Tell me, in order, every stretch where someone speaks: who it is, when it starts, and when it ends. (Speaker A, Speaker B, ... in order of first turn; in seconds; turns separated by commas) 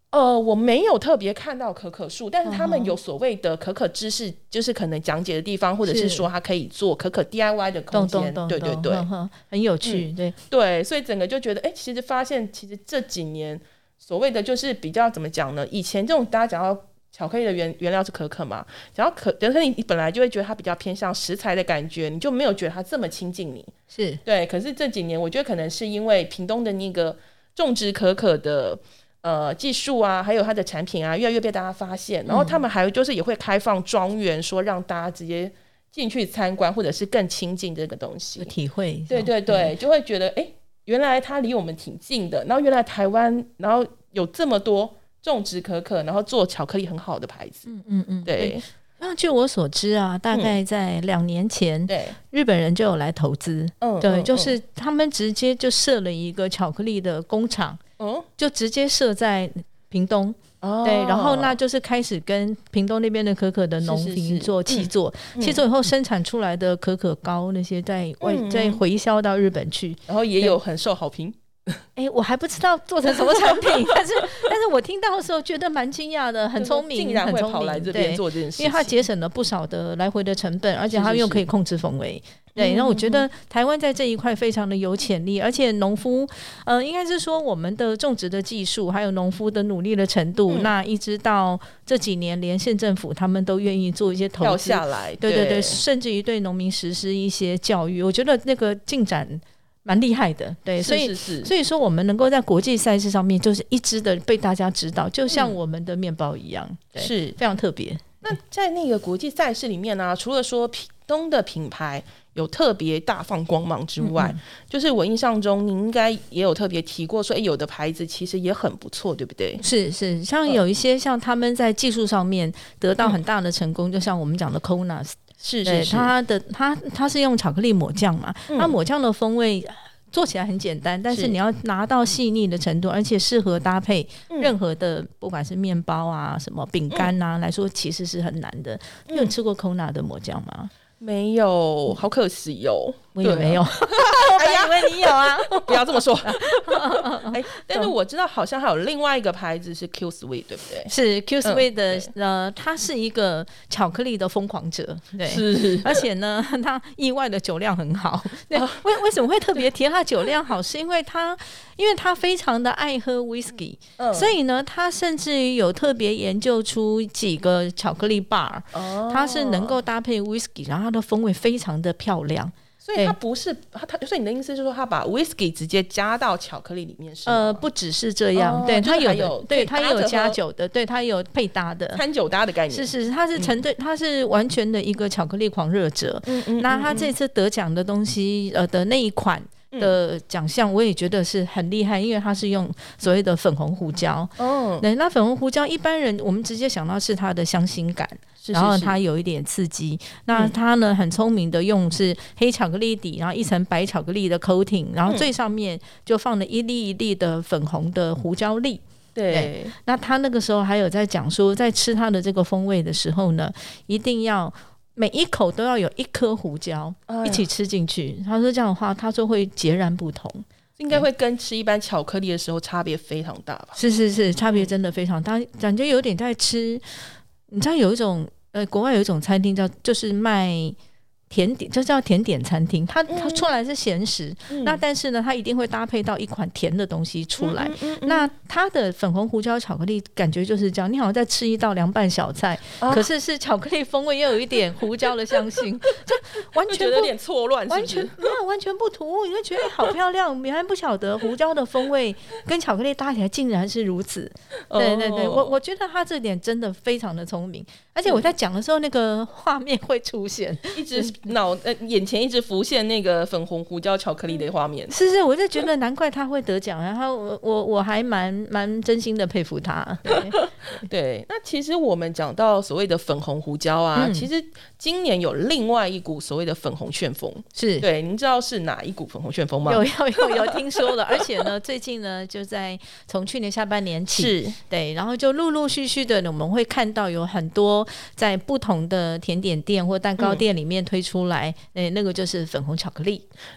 Speaker A: 0.1-9.1, Speaker B: 2.5-3.0, Speaker B: 5.8-6.3, Speaker B: 7.9-10.4, Speaker A: 9.8-23.7, Speaker B: 23.9-24.2, Speaker A: 24.2-38.5, Speaker B: 32.3-32.6, Speaker B: 38.4-39.7, Speaker A: 39.1-47.7, Speaker B: 47.7-57.8, Speaker A: 48.3-48.6, Speaker A: 51.9-52.2, Speaker A: 53.8-54.6, Speaker A: 58.0-58.3, Speaker B: 58.4-70.6, Speaker A: 60.6-61.6, Speaker A: 63.8-65.6, Speaker A: 68.2-68.8, Speaker A: 70.1-71.8, Speaker B: 72.0-108.2, Speaker A: 73.1-74.0, Speaker A: 76.6-79.0, Speaker A: 80.9-81.5, Speaker A: 82.6-83.3, Speaker A: 90.5-90.7, Speaker A: 94.4-95.8, Speaker A: 100.8-101.5, Speaker A: 105.3-105.6, Speaker A: 107.0-107.4, Speaker A: 108.2-119.6, Speaker B: 114.0-114.4, Speaker B: 119.6-140.7, Speaker A: 125.4-126.1, Speaker A: 128.5-128.8, Speaker A: 131.1-131.4, Speaker A: 139.1-139.3, Speaker A: 141.0-150.9, Speaker B: 143.2-147.9, Speaker B: 150.9-173.2, Speaker A: 151.4-152.1, Speaker A: 155.2-156.1, Speaker A: 158.5-158.9, Speaker A: 164.0-164.3, Speaker A: 168.7-169.8, Speaker A: 172.8-177.7, Speaker B: 177.2-182.0, Speaker A: 178.3-180.4, Speaker A: 181.9-183.6, Speaker B: 182.7-221.1, Speaker A: 186.2-187.1, Speaker A: 189.7-190.0, Speaker A: 194.4-194.9, Speaker A: 198.4-199.0, Speaker A: 209.2-209.7, Speaker A: 217.1-217.5, Speaker A: 220.8-223.8, Speaker B: 223.8-230.8, Speaker A: 224.4-224.7, Speaker B: 231.3-247.1, Speaker A: 233.1-233.5, Speaker A: 234.5-234.8, Speaker A: 237.4-238.3, Speaker A: 242.8-243.1, Speaker A: 246.7-248.2, Speaker B: 247.7-261.2, Speaker A: 254.7-255.6, Speaker A: 260.7-264.9, Speaker B: 264.9-270.8, Speaker A: 270.1-280.8, Speaker B: 273.9-274.3, Speaker B: 277.6-277.9, Speaker B: 279.6-293.3, Speaker A: 284.1-284.6, Speaker A: 290.2-290.4